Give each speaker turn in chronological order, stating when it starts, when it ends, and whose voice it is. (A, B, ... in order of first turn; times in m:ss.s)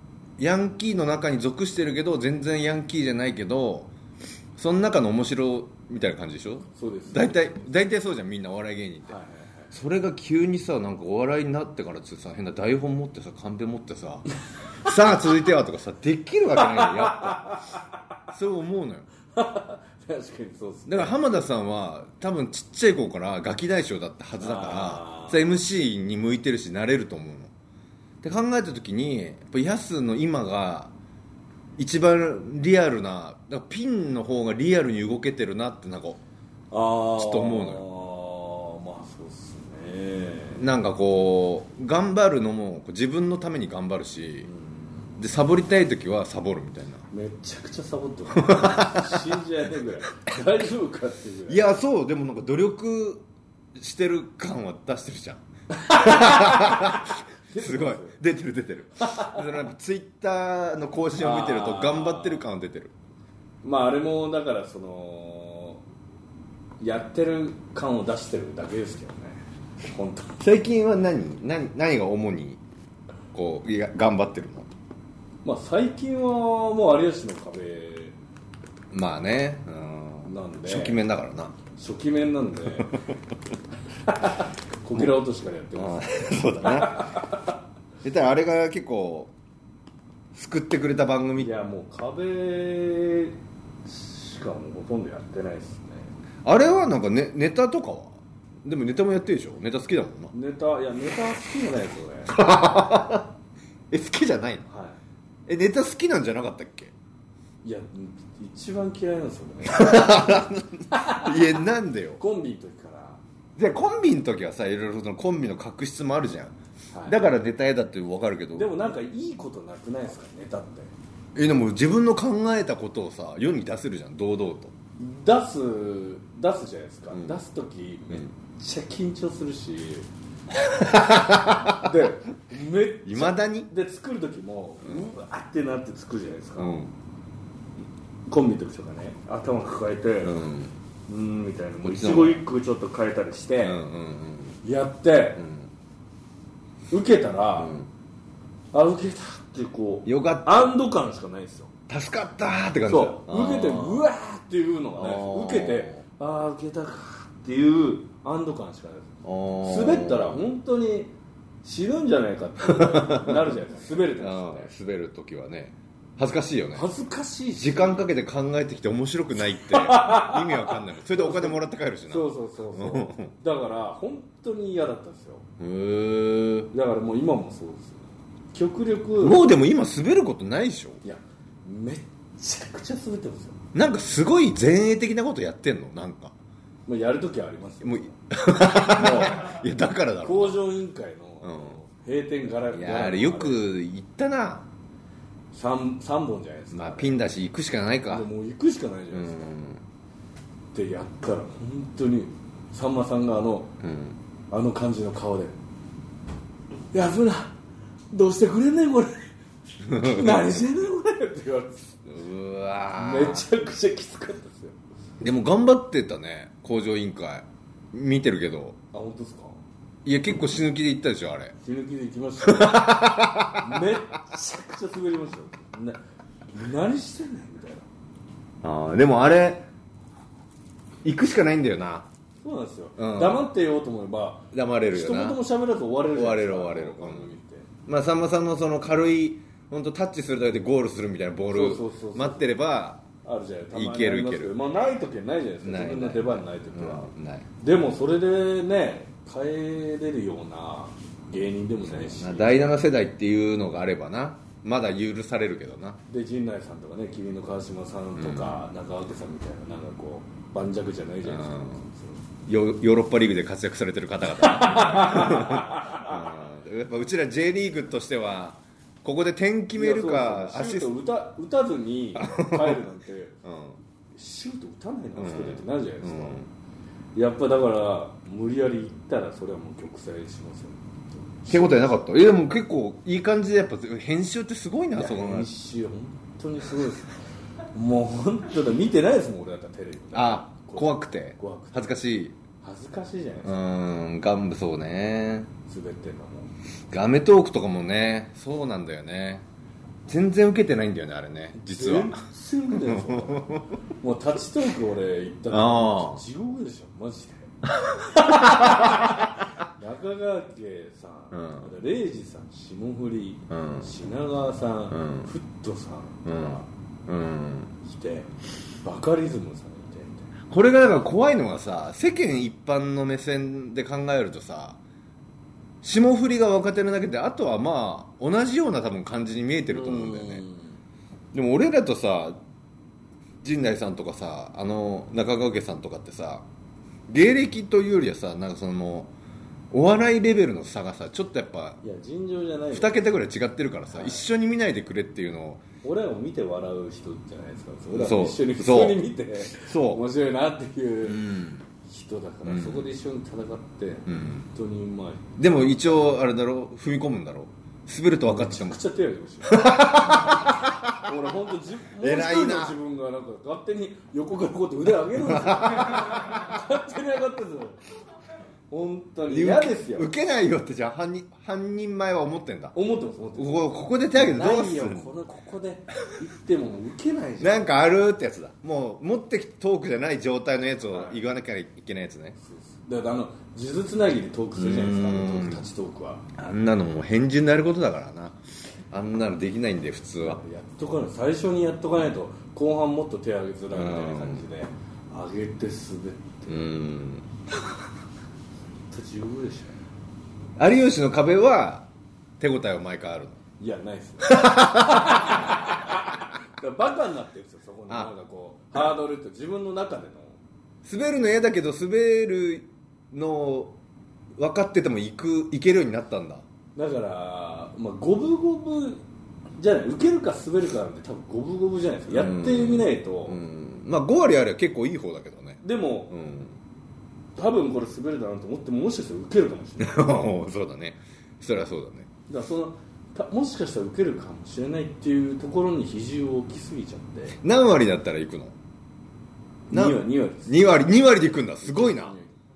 0:00.4-0:03.9 A
0:04.6-0:09.2 A
0:06.7-0:07.5 B
0:09.1-0:09.7 B
0:09.7-0:14.3 A
0:14.8-0:17.5 A
0:16.6-0:17.8 B
0:18.3-0:19.1 A
0:19.3-0:21.2 B
0:20.9-0:27.5 A
0:24.4-0:25.5 B
0:28.2-0:30.9 A
0:31.8-0:36.2 A
0:36.7-0:40.7 B
0:37.2-0:37.8 A
0:40.6-0:44.5 A
0:44.4-0:45.1 B
0:45.2-0:47.0 A
0:47.1-0:51.6 B
0:48.4-0:49.2 A
0:51.5-0:53.2 A
0:53.8-1:02.9 A
0:55.7-0:58.2 B
0:59.0-0:59.5 B
1:01.1-1:02.4 B
1:03.6-1:05.8 B
1:06.8-1:10.3 B
1:10.4-1:12.6 A
1:13.3-1:14.7 A
1:15.4-1:18.2 B
1:18.9-1:21.6 A
1:20.2-1:21.0 B
1:21.8-1:23.0 B
1:24.1-1:27.2 B
1:25.7-1:27.4 A
1:28.0-1:29.3 A
1:30.3-1:31.5 A
1:31.4-1:36.1 B
1:36.4-1:40.3 A
1:40.3-1:42.3 B
1:42.3-1:43.3 A
1:43.9-1:44.6 A
1:44.7-1:45.0 B
1:45.5-1:46.9 A
1:47.6-1:51.4 B
1:49.6-1:52.2 A
1:52.2-1:53.2 B
1:53.6-1:56.5 A
1:56.9-1:57.2 B
1:57.0-1:58.9 A
1:58.5-2:00.9 B
2:01.4-2:04.7 A
2:05.0-2:10.1 B
2:07.1-2:07.4 A
2:10.9-2:11.8 A
2:11.0-2:16.8 B
2:13.0-2:13.7 A
2:16.6-2:16.9 A
2:18.3-2:20.4 B
2:20.2-2:20.8 A
2:21.1-2:23.8 B
2:21.8-2:22.4 A
2:23.6-2:24.6 A
2:24.6-2:25.4 B
2:25.4-2:25.7 A
2:26.9-2:27.8 B
2:27.6-2:27.9 A
2:28.7-2:31.7 B
2:30.0-2:30.8 A
2:31.9-2:34.1 A
2:32.8-2:44.7 B
2:34.9-2:36.0 A
2:39.2-2:40.4 A
2:42.6-2:43.6 A
2:44.1-2:46.8 A
2:46.7-2:48.1 B
2:47.5-2:53.3 A
2:49.6-2:55.4 B
2:55.6-2:56.7 A
2:56.7-2:59.4 B
2:59.2-3:01.0 A
3:01.0-3:03.6 B
3:03.7-3:06.3 A
3:06.8-3:08.1 B
3:07.8-3:10.6 A
3:08.8-3:09.6 B
3:10.2-3:13.6 B
3:11.4-3:11.8 A
3:12.7-3:14.7 A
3:15.5-3:17.2 B
3:16.7-3:18.3 A
3:18.1-3:19.5 B
3:19.1-3:19.8 A
3:20.7-3:23.7 B
3:23.8-3:24.2 A
3:24.5-3:25.6 B
3:26.9-3:27.5 B
3:28.1-3:29.3 B
3:29.8-3:30.7 A
3:29.9-3:31.9 B
3:32.0-3:33.5 A
3:32.9-3:34.8 B
3:35.2-3:38.8 A
3:38.9-3:39.6 B
3:40.0-3:41.5 A
3:41.6-3:46.0 B
3:42.4-3:43.9 A
3:46.5-3:47.8 B
3:48.6-3:49.6 A
3:51.0-3:52.0 A
3:52.4-3:57.7 B
3:53.0-3:53.4 A
3:54.5-3:55.4 A
3:56.1-3:57.4 A
3:57.9-4:03.0 A
4:01.5-4:02.5 B
4:03.2-4:12.7 B
4:03.7-4:04.6 A
4:05.6-4:07.5 A
4:11.8-4:16.0 A
4:16.1-4:22.2 B
4:18.2-4:18.6 A
4:21.2-4:21.8 A
4:22.5-4:30.9 A
4:24.3-4:26.1 B
4:29.7-4:33.4 B
4:32.2-4:32.8 A
4:33.4-4:33.8 A
4:34.2-4:36.4 B
4:35.2-4:36.5 A
4:37.1-4:41.8 B
4:41.5-4:45.5 A
4:44.9-4:47.1 B
4:47.7-4:51.9 B
4:50.1-4:52.4 A
4:52.6-4:53.6 B
4:53.4-4:55.5 A
4:55.6-4:56.5 B
4:56.9-4:59.4 A
5:00.1-5:02.2 A
5:01.6-5:07.5 B
5:02.7-5:03.7 A
5:05.5-5:06.2 A
5:07.9-5:08.9 A
5:08.1-5:16.6 B
5:11.3-5:11.7 A
5:13.5-5:13.9 A
5:14.9-5:15.3 A
5:16.2-5:17.8 A
5:17.8-5:20.3 B
5:20.5-5:24.8 A
5:25.8-5:30.4 A
5:29.7-5:30.8 B
5:31.3-5:32.4 A
5:33.4-5:36.4 A
5:37.1-5:39.1 A
5:39.7-5:41.8 A
5:41.8-5:43.0 B
5:42.7-5:45.6 A
5:43.9-5:44.3 B
5:45.8-5:51.2 B
5:47.9-5:50.0 A
5:51.0-5:51.6 A
5:51.8-5:55.2 B
5:52.4-5:52.9 A
5:54.1-5:54.5 A
5:55.4-5:58.8 A
5:58.2-6:07.8 B
5:59.4-6:00.8 A
6:02.0-6:02.8 A
6:05.3-6:05.9 A
6:08.7-6:10.1 B
6:09.3-6:12.8 A
6:12.7-6:17.7 B
6:13.4-6:15.1 A
6:17.4-6:22.4 A
6:20.9-6:21.2 B
6:22.4-6:26.2 B
6:24.6-6:25.6 A
6:26.4-6:28.4 A
6:28.9-6:30.4 A
6:30.2-6:36.7 B
6:33.7-6:34.4 A
6:36.5-6:37.3 A
6:38.9-6:39.8 B
6:40.6-6:41.9 A
6:42.4-6:43.4 A
6:43.6-6:50.4 B
6:44.2-6:45.6 A
6:50.8-6:53.8 A
6:54.4-6:56.4 A
6:56.8-6:59.0 B
6:59.6-7:03.4 B
7:02.1-7:06.6 A
7:05.6-7:06.1 B
7:07.4-7:10.1 B
7:09.8-7:12.1 A
7:12.3-7:17.4 B
7:17.4-7:18.5 A
7:19.7-7:22.4 B
7:19.7-7:22.1 A